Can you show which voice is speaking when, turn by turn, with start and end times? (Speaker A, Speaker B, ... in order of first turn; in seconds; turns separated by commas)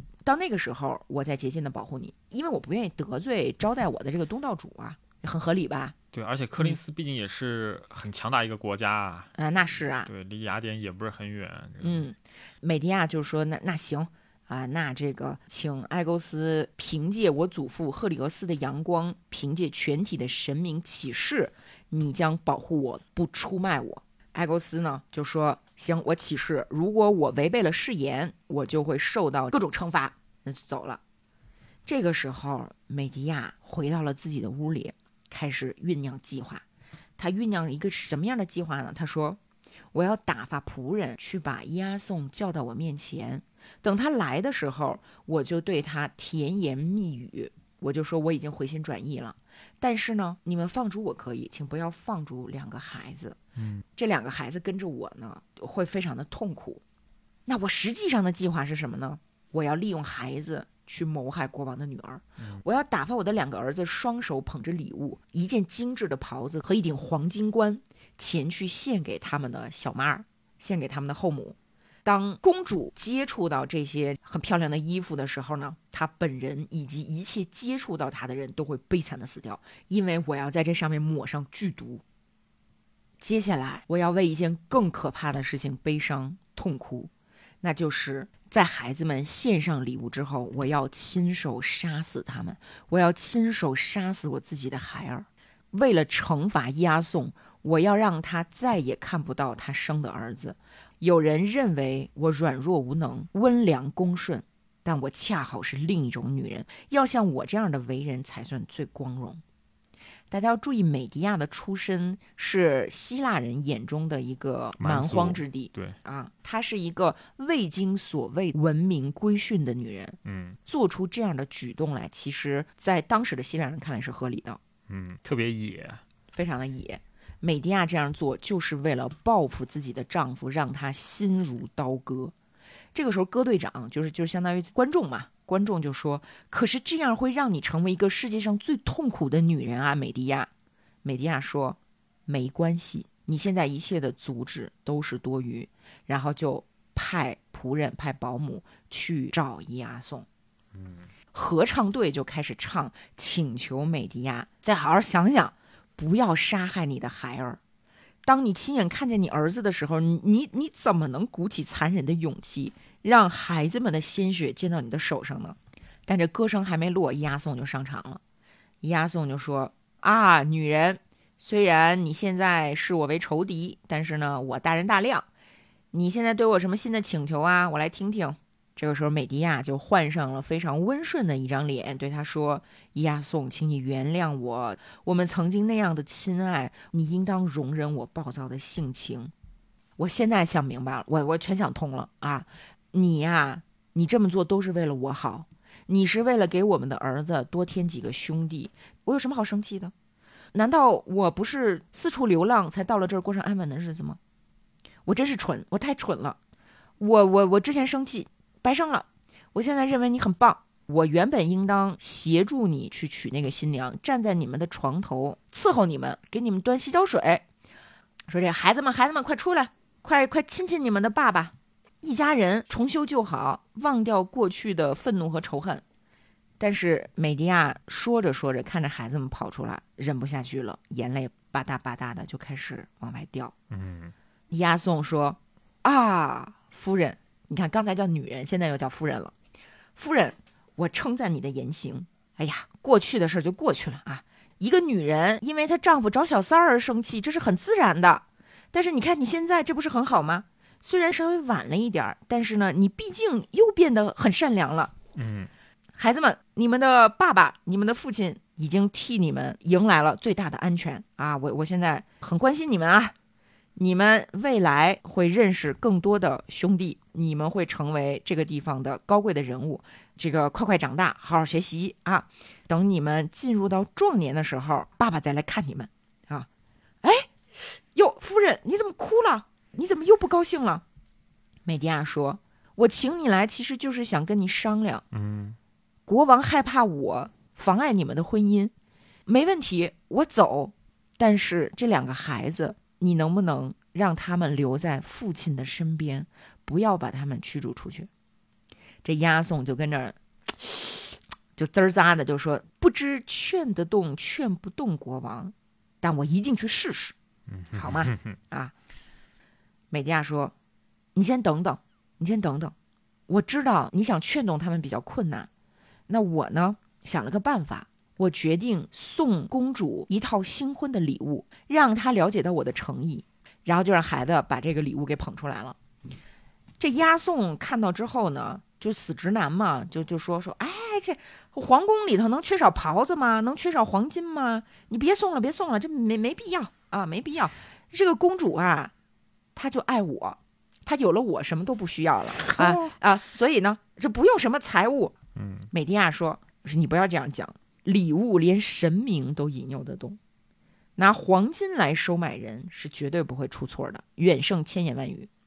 Speaker A: 0.3-6.0, Speaker B: 6.1-9.3, Speaker A: 9.3-10.1, Speaker B: 10.1-12.1, Speaker A: 11.8-31.0, Speaker A: 31.9-36.6, Speaker A: 37.2-39.4, Speaker A: 39.9-53.4, Speaker B: 53.6-53.8, Speaker A: 54.0-56.8, Speaker A: 57.5-82.0, Speaker B: 62.4-62.6, Speaker A: 83.2-87.1, Speaker A: 87.6-109.4, Speaker A: 110.3-124.6, Speaker B: 114.8-116.0, Speaker B: 120.2-120.6, Speaker B: 124.9-126.0, Speaker A: 126.3-132.3, Speaker A: 132.9-140.5, Speaker A: 141.0-150.3, Speaker B: 150.7-151.1, Speaker A: 151.3-157.6, Speaker A: 158.3-165.6, Speaker A: 166.1-168.2, Speaker A: 168.8-175.3, Speaker A: 175.9-189.3, Speaker A: 190.0-199.9, Speaker A: 200.5-204.2, Speaker A: 205.1-206.4, Speaker A: 207.0-217.4, Speaker A: 218.3-225.8, Speaker A: 226.6-233.5, Speaker B: 233.7-234.1, Speaker A: 234.5-239.3, Speaker A: 240.0-254.9, Speaker B: 255.2-255.5, Speaker A: 256.0-263.1, Speaker A: 263.8-276.5, Speaker A: 277.0-277.4, Speaker A: 277.9-280.8, Speaker A: 281.7-285.1, Speaker B: 285.1-285.6, Speaker A: 286.1-288.7, Speaker A: 289.3-298.1, Speaker A: 299.0-307.1, Speaker B: 307.5-308.4, Speaker A: 307.8-308.7, Speaker A: 309.9-310.5, Speaker A: 311.1-312.7, Speaker A: 313.3-315.5, Speaker A: 316.1-325.8, Speaker A: 326.8-338.9, Speaker A: 339.6-345.1, Speaker B: 342.5-342.9, Speaker B: 345.4-345.7, Speaker A: 345.7-350.2, Speaker A: 351.0-355.3